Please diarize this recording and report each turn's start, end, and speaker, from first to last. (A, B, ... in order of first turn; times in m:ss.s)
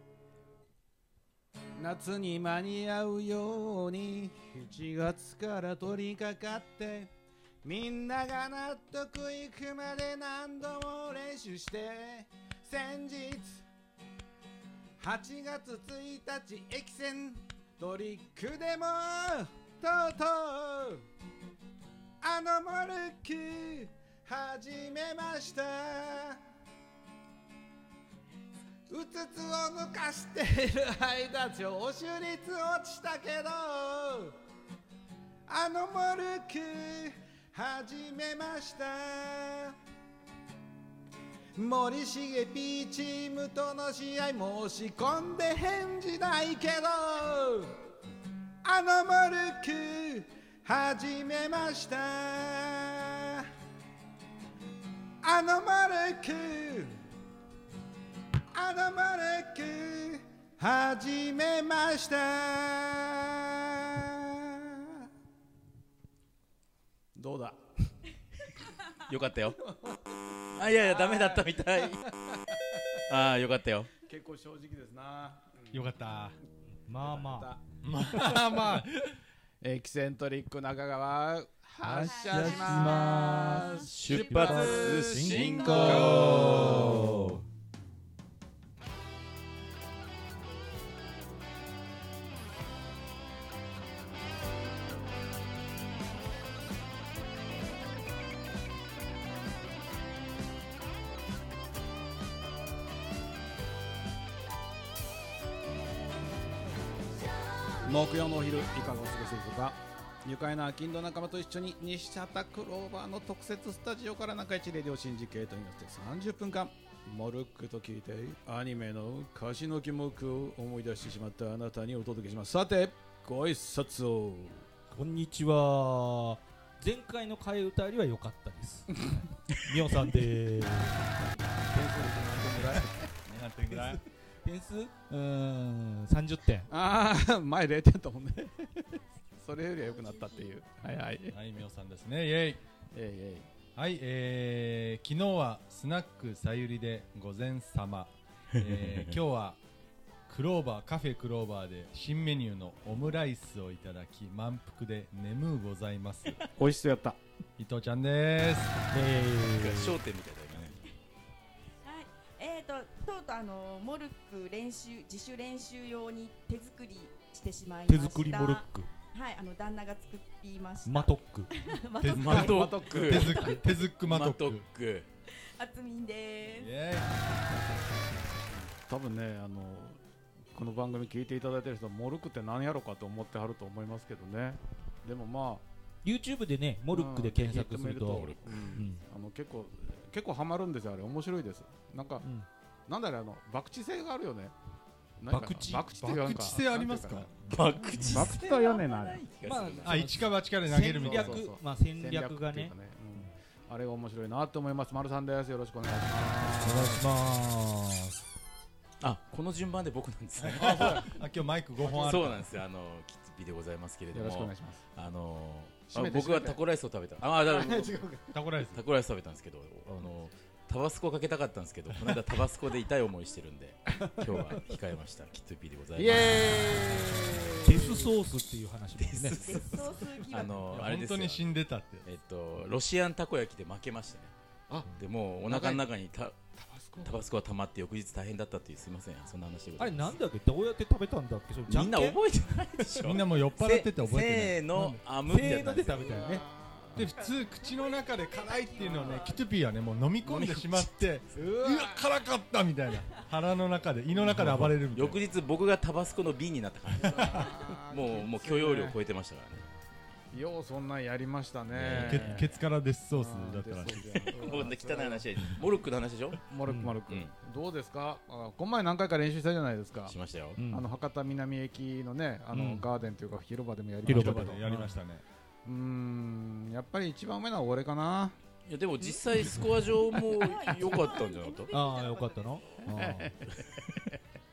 0:01.8-0:07.1 A
0:07.6-0:13.6 A
0:15.0-0:21.0 A
0:22.2-0:26.4 A
0:28.9-0:34.4 A
0:35.5-0:39.8 A
0:41.5-0:47.7 A
0:48.6-0:53.5 A
0:55.2-0:57.0 A
0:58.5-1:05.0 A
1:07.2-1:07.9 A
1:09.1-1:09.6 B
1:09.6-1:13.0 A
1:10.6-1:12.1 B
1:13.1-1:13.9 B
1:14.0-1:15.9 A
1:15.7-1:16.4 C
1:16.9-1:17.5 D
1:17.0-1:18.8 A
1:17.8-1:19.2 C
1:19.6-1:26.5 A
1:21.8-1:27.2 D
1:22.4-1:22.8 E
1:23.9-1:27.2 B
1:24.0-1:24.6 E
1:25.2-1:27.4 C
1:47.8-2:04.7 A
2:04.9-2:11.1 D
2:11.7-2:13.1 A
2:11.7-2:12.9 D
2:13.2-2:14.0 C
2:13.7-2:16.7 D
2:16.7-2:21.4 A
2:21.3-2:22.6 C
2:22.9-2:23.5 A
2:23.8-2:29.6 C
2:28.5-2:29.2 B
2:30.3-2:36.4 C
2:36.6-2:37.2 A
2:37.6-2:38.7 C
2:38.9-2:40.0 D
2:39.6-2:40.8 B
2:41.8-2:53.8 E
2:47.9-2:48.9 D
2:50.8-2:51.5 D
2:52.0-2:54.7 C
2:52.1-2:53.5 B
2:52.4-2:53.2 A
2:54.0-2:55.1 B
2:55.6-2:56.7 E
2:56.5-2:57.1 C
2:58.6-3:00.0 A
3:00.5-3:05.6 A
3:06.0-3:09.0 D
3:06.9-3:12.2 A
3:08.1-3:08.7 B
3:12.2-3:12.5 D
3:12.9-3:14.5 A
3:15.2-3:19.2 A
3:15.3-3:15.9 D
3:15.9-3:17.3 C
3:17.5-3:20.1 B
3:18.0-3:18.3 C
3:19.4-3:22.7 D
3:19.8-3:21.5 C
3:20.9-3:27.1 A
3:26.5-3:28.2 D
3:29.0-3:31.0 B
3:30.4-3:32.4 C
3:30.5-3:31.2 A
3:31.8-3:32.4 A
3:31.9-3:38.0 B
3:34.1-3:34.8 A
3:35.9-3:36.6 A
3:37.4-3:38.3 A
3:38.3-3:38.8 C
3:38.7-3:47.3 B
3:46.0-3:48.1 A
3:47.6-3:49.7 D
3:49.0-3:51.5 B
3:49.4-3:50.6 E
3:50.7-3:52.0 C
3:52.0-3:54.3 B
3:54.7-3:54.9 A
3:55.0-4:00.2 B
3:55.5-3:55.8 A
3:56.6-3:57.2 A
3:59.8-4:02.2 D
4:01.7-4:06.2 B
4:03.0-4:05.0 C
4:05.2-4:06.4 D
4:05.9-4:07.1 A
4:06.9-4:15.2 C
4:07.2-4:09.3 E
4:08.8-4:09.3 A
4:10.2-4:10.9 B
4:11.3-4:12.0 A
4:14.4-4:19.6 B
4:16.9-4:19.0 A
4:17.0-4:17.4 C
4:20.3-4:25.5 A
4:21.7-4:22.5 B
4:21.9-4:24.3 C
4:24.1-4:26.4 B
4:26.4-4:30.2 A
4:26.7-4:27.0 D
4:30.1-4:30.6 B
4:30.6-4:30.8 D
4:30.7-4:34.7 A
4:32.5-4:32.8 D
4:34.0-4:35.2 C
4:34.0-4:34.9 D
4:35.6-4:38.3 A
4:38.7-4:41.7 B
4:40.0-4:42.9 E
4:41.7-4:43.4 D
4:42.9-4:44.2 A